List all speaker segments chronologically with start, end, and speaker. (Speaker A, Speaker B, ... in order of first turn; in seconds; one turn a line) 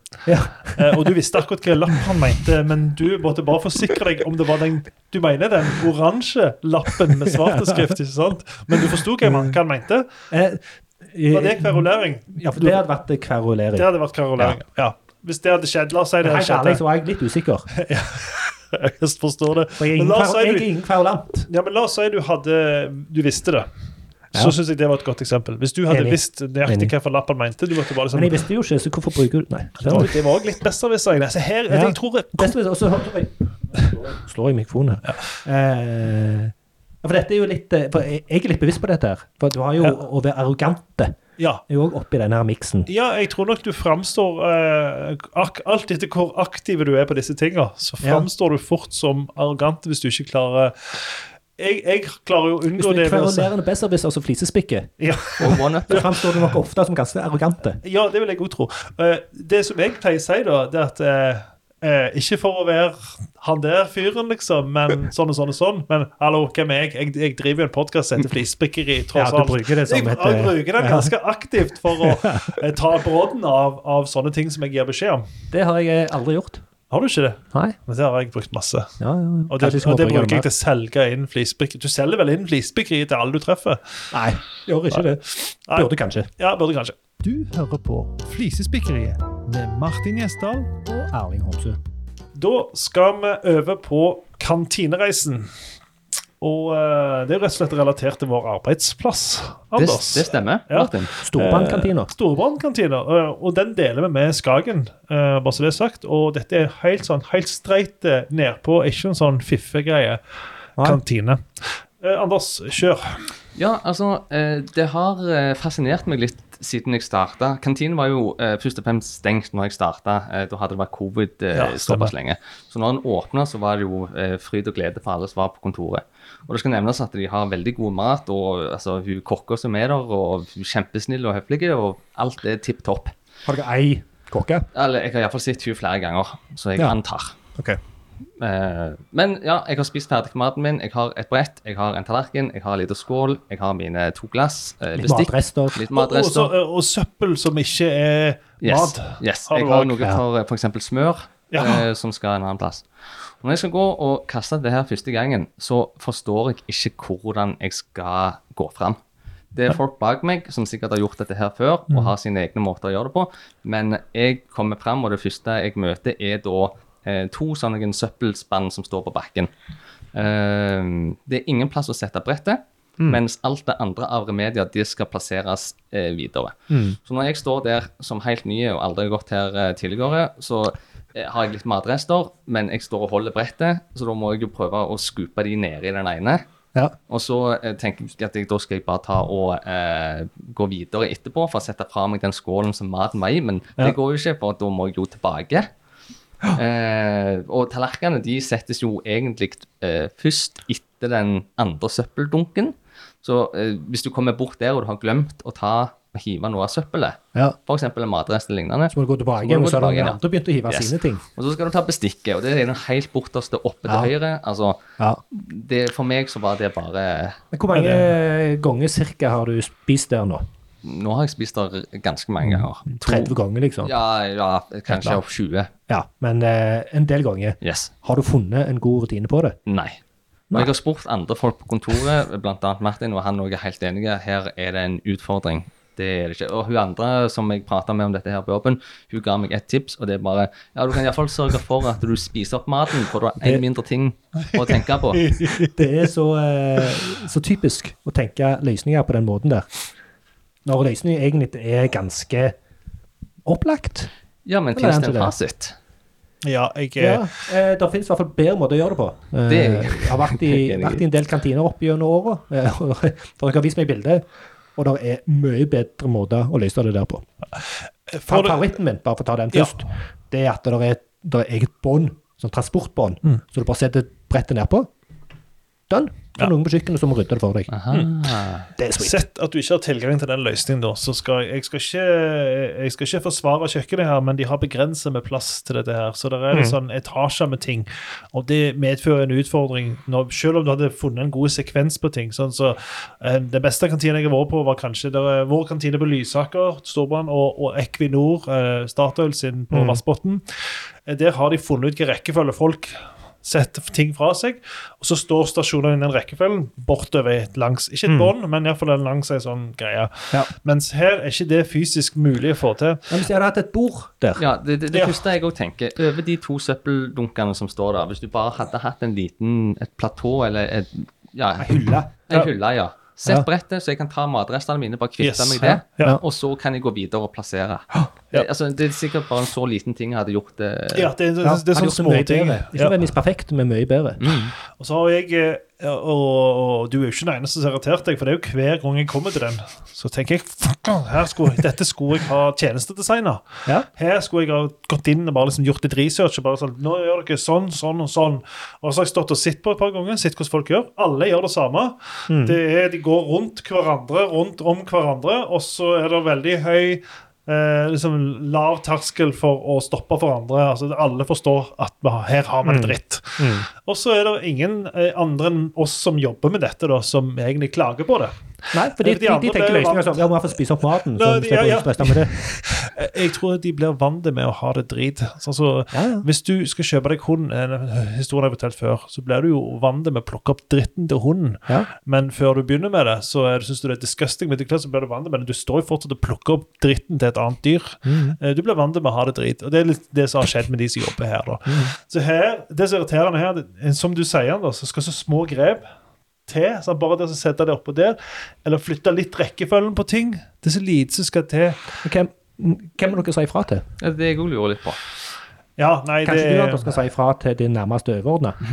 Speaker A: 0.3-1.1
Speaker B: 0.8-10.1
Speaker A: 7.3-7.9
Speaker A: 9.2-9.6
Speaker A: 10.3-14.6
Speaker B: 11.3-12.8
Speaker B: 13.8-16.8
Speaker A: 16.2-17.7
Speaker B: 17.7-20.7
Speaker A: 19.8-21.5
Speaker B: 21.5-23.7
Speaker B: 24.3-28.4
Speaker A: 25.9-26.9
Speaker A: 28.1-30.2
Speaker B: 29.8-32.6
Speaker A: 31.7-41.2
Speaker B: 41.4-41.6
Speaker A: 41.7-42.9
Speaker B: 42.9-53.5
Speaker A: 52.8-57.8
Speaker B: 55.0-56.1
Speaker C: 55.4-56.1
Speaker B: 57.8-75.2
Speaker A: 69.1-71.1
Speaker A: 71.9-72.5
Speaker A: 75.5-76.6
Speaker B: 76.9-79.0
Speaker A: 79.0-80.5
Speaker B: 79.5-84.1
Speaker A: 84.1-86.3
Speaker B: 84.9-90.7
Speaker A: 90.9-91.8
Speaker B: 92.3-95.5
Speaker B: 96.4-110.2
Speaker C: 99.8-101.1
Speaker A: 101.2-102.1
Speaker B: 110.8-113.3
Speaker C: 113.5-133.1
Speaker B: 121.5-122.1
Speaker A: 133.5-134.7
Speaker C: 134.7-137.3
Speaker C: 138.4-146.5
Speaker A: 145.0-145.8
Speaker B: 145.9-150.0
Speaker C: 148.6-152.8
Speaker B: 151.5-151.8
Speaker C: 153.4-159.0
Speaker C: 159.5-169.5
Speaker C: 170.1-186.4
Speaker A: 176.7-177.0
Speaker C: 187.1-195.7
Speaker C: 196.5-214.8
Speaker A: 208.9-211.2
Speaker A: 213.9-214.1
Speaker C: 215.3-217.4
Speaker A: 217.5-220.4
Speaker B: 217.7-218.1
Speaker C: 220.8-225.7
Speaker A: 222.4-223.9
Speaker A: 224.9-225.2
Speaker A: 225.9-229.6
Speaker C: 227.6-227.9
Speaker C: 229.7-230.0
Speaker C: 230.5-245.3
Speaker B: 244.5-246.1
Speaker A: 245.6-249.7
Speaker A: 250.7-252.6
Speaker A: 253.4-254.1
Speaker C: 254.5-255.8
Speaker A: 254.8-255.3
Speaker B: 256.4-257.5
Speaker A: 257.0-264.2
Speaker C: 259.5-261.0
Speaker A: 264.8-267.2
Speaker B: 268.1-268.7
Speaker A: 268.3-274.9
Speaker A: 275.9-277.7
Speaker C: 277.7-278.7
Speaker A: 278.8-279.2
Speaker B: 279.0-313.2
Speaker A: 299.7-300.0
Speaker A: 308.1-308.3
Speaker A: 313.1-314.4
Speaker C: 314.4-331.1
Speaker B: 314.9-315.2
Speaker A: 321.6-322.1
Speaker B: 325.2-326.2
Speaker B: 330.9-333.0
Speaker A: 331.4-334.4
Speaker C: 334.2-334.5
Speaker B: 334.8-370.2
Speaker A: 352.3-352.6
Speaker A: 362.6-363.7
Speaker A: 368.7-372.4
Speaker B: 371.1-395.9
Speaker A: 375.9-376.3
Speaker A: 388.1-388.4
Speaker A: 391.7-391.9
Speaker B: 396.5-401.8
Speaker A: 402.0-403.9
Speaker C: 404.0-405.0
Speaker B: 405.8-407.0
Speaker A: 406.2-408.6